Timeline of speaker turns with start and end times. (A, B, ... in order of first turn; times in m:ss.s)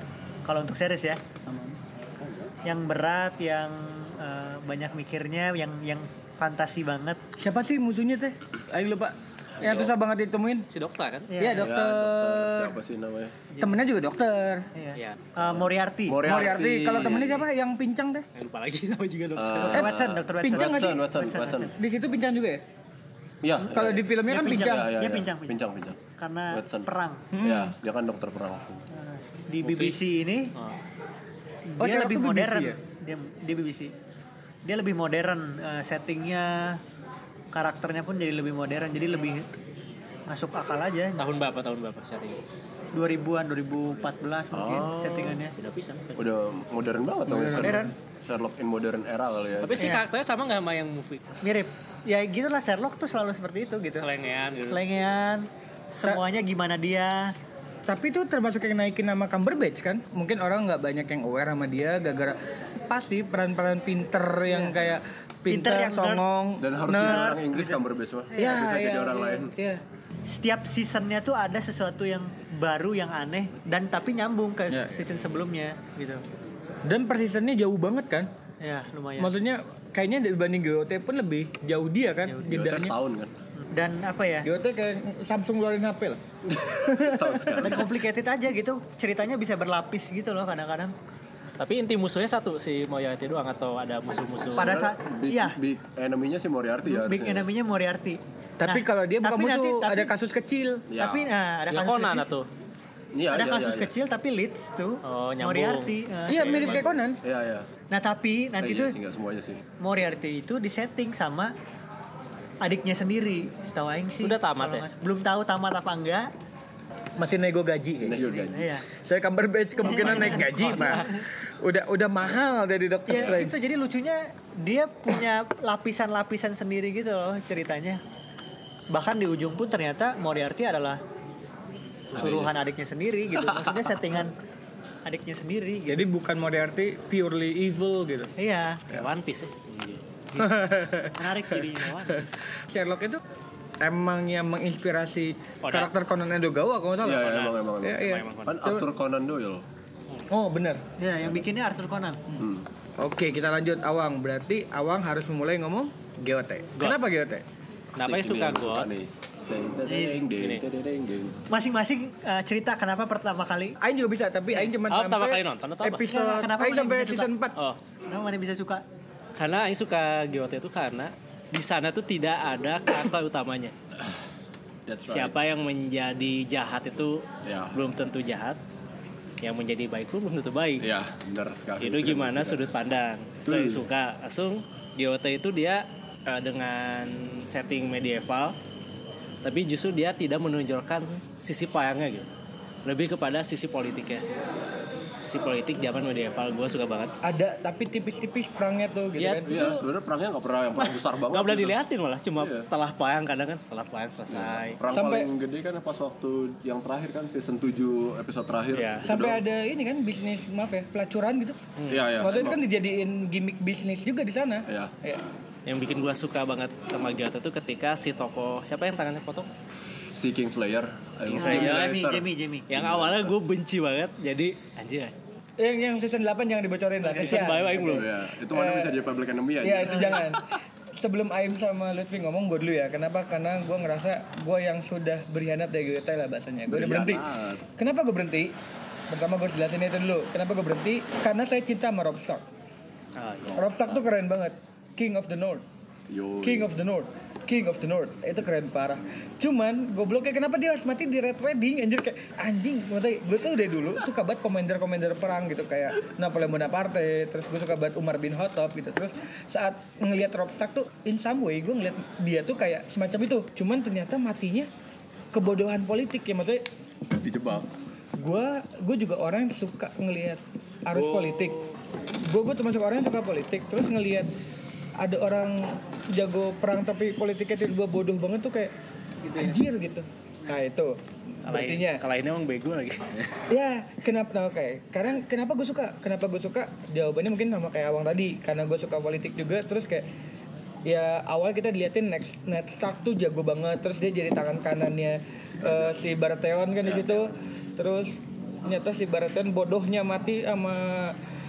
0:00.4-0:01.2 A
0:01.5-0:01.8 B
0:02.6-0:07.2 A
0:07.4-0:10.6 B
0:09.6-0:09.9 C
0:10.7-0:11.3 D
0:11.3-0:11.7 A
0:11.4-0:12.8 B
0:11.6-0:13.3 C
0:13.5-0:13.8 A
0:13.6-0:14.7 B
0:14.7-0:16.2 A
0:14.9-0:15.2 D
0:16.1-0:17.4 C
0:16.2-0:18.2 B
0:18.3-0:19.9 D
0:19.4-0:21.7 C
0:19.6-0:21.7 A
0:20.4-0:21.0 B
0:21.7-0:22.6 B
0:23.4-0:26.0 C
0:23.6-0:25.6 A
0:23.7-0:24.9 B
0:26.1-0:27.3 A
0:26.5-0:26.9 C
0:27.3-0:27.7 B
0:27.4-0:28.8 C
0:28.9-0:30.5 A
0:29.6-0:30.0 D
0:31.7-0:33.9 A
0:31.8-0:32.8 B
0:34.6-0:36.8 A
0:37.5-0:39.5 A
0:40.3-0:41.2 A
0:41.2-0:42.4 D
0:42.9-0:45.5 A
0:44.5-0:45.2 C
0:45.5-0:46.2 D
0:46.2-0:49.9 C
0:47.3-0:47.9 B
0:47.6-0:47.9 A
0:49.6-0:51.2 D
0:51.4-0:54.1 A
0:54.0-0:54.8 D
0:54.7-0:57.3 A
0:57.9-1:07.3 B
1:05.5-1:06.2 A
1:06.6-1:09.5 C
1:06.9-1:08.6 A
1:08.4-1:09.8 B
1:10.3-1:16.2 A
1:14.7-1:15.1 B
1:16.8-1:18.3 B
1:18.6-1:19.3 A
1:19.2-1:22.9 B
1:22.4-1:23.3 C
1:23.7-1:24.5 A
1:24.4-1:26.2 B
1:26.5-1:27.9 C
1:26.8-1:27.8 B
1:27.6-1:30.9 A
1:31.6-1:34.7 D
1:34.5-1:35.6 A
1:34.6-1:37.5 C
1:36.8-1:40.1 A
1:38.6-1:40.8 B
1:40.9-1:41.3 C
1:41.0-1:42.3 A
1:41.7-1:42.5 D
1:43.1-1:43.9 C
1:43.3-1:46.9 A
1:45.0-1:45.9 D
1:46.3-1:47.2 B
1:46.6-1:47.7 C
1:47.9-1:49.0 A
1:48.6-1:49.6 C
1:49.8-1:51.5 A
1:52.6-1:56.3 A
1:54.2-1:54.8 D
1:57.2-1:58.3 B
1:58.0-1:58.7 C
1:58.2-1:58.8 A
1:58.9-2:03.6 B
1:59.8-2:01.1 A
2:00.0-2:01.0 D
2:03.1-2:08.0 A
2:08.9-2:11.0 A
2:12.1-2:12.5 C
2:12.1-2:14.3 A
2:15.0-2:16.0 A
2:15.9-2:18.3 B
2:18.4-2:18.8 A
2:18.9-2:20.0 D
2:20.4-2:21.3 B
2:21.2-2:22.2 A
2:21.8-2:22.4 D
2:22.6-2:23.2 B
2:23.8-2:28.9 B
2:25.6-2:25.9 D
2:27.0-2:29.6 C
2:27.2-2:28.5 D
2:30.3-2:30.8 B
2:31.0-2:32.2 A
2:32.4-2:32.6 C
2:33.0-2:37.4 B
2:38.0-2:38.9 D
2:38.0-2:41.4 C
2:39.9-2:40.3 A
2:41.5-2:43.7 A
2:43.8-2:47.6 B
2:44.9-2:46.1 D
2:46.1-2:47.3 A
2:48.1-2:48.8 A
2:49.4-2:53.7 D
2:54.9-2:55.3 C
2:55.1-2:58.6 D
2:57.4-2:57.8 C
2:59.4-3:00.8 D
3:00.8-3:02.7 C
3:01.8-3:08.6 D
3:03.4-3:03.8 C
3:09.4-3:12.3 D
3:12.8-3:14.2 D
3:15.2-3:17.1 D
3:17.2-3:19.7 B
3:19.2-3:19.8 D
3:19.4-3:21.8 C
3:21.3-3:24.8 D
3:22.4-3:22.7 C
3:24.3-3:29.4 C
3:24.9-3:25.3 B
3:28.7-3:29.1 D
3:29.0-3:31.6 B
3:31.8-3:32.1 D
3:31.9-3:32.6 C
3:32.2-3:35.2 B
3:35.6-3:39.5 D
3:40.2-3:43.3 C
3:41.3-3:41.9 D
3:41.3-3:42.7 A
3:42.7-3:45.1 D
3:45.6-3:49.0 B
3:47.0-3:48.1 D
3:47.8-3:50.3 C
3:49.6-3:50.4 B
3:49.9-3:50.2 A
3:51.0-3:58.5 B
3:56.7-3:57.6 C
3:59.1-4:02.4 B
4:03.2-4:03.7 D
4:03.5-4:05.6 B
4:06.1-4:06.7 C
4:06.4-4:24.7 B
4:25.3-4:26.6 B
4:27.1-4:27.7 C
4:28.2-4:31.6 B
4:32.2-4:34.3 B
4:35.0-4:38.7 B
4:39.3-4:42.0 B
4:41.5-4:43.1 D
4:43.5-4:50.1 B
4:50.9-5:01.2 B
4:55.5-4:56.0 C
4:56.8-4:57.2 C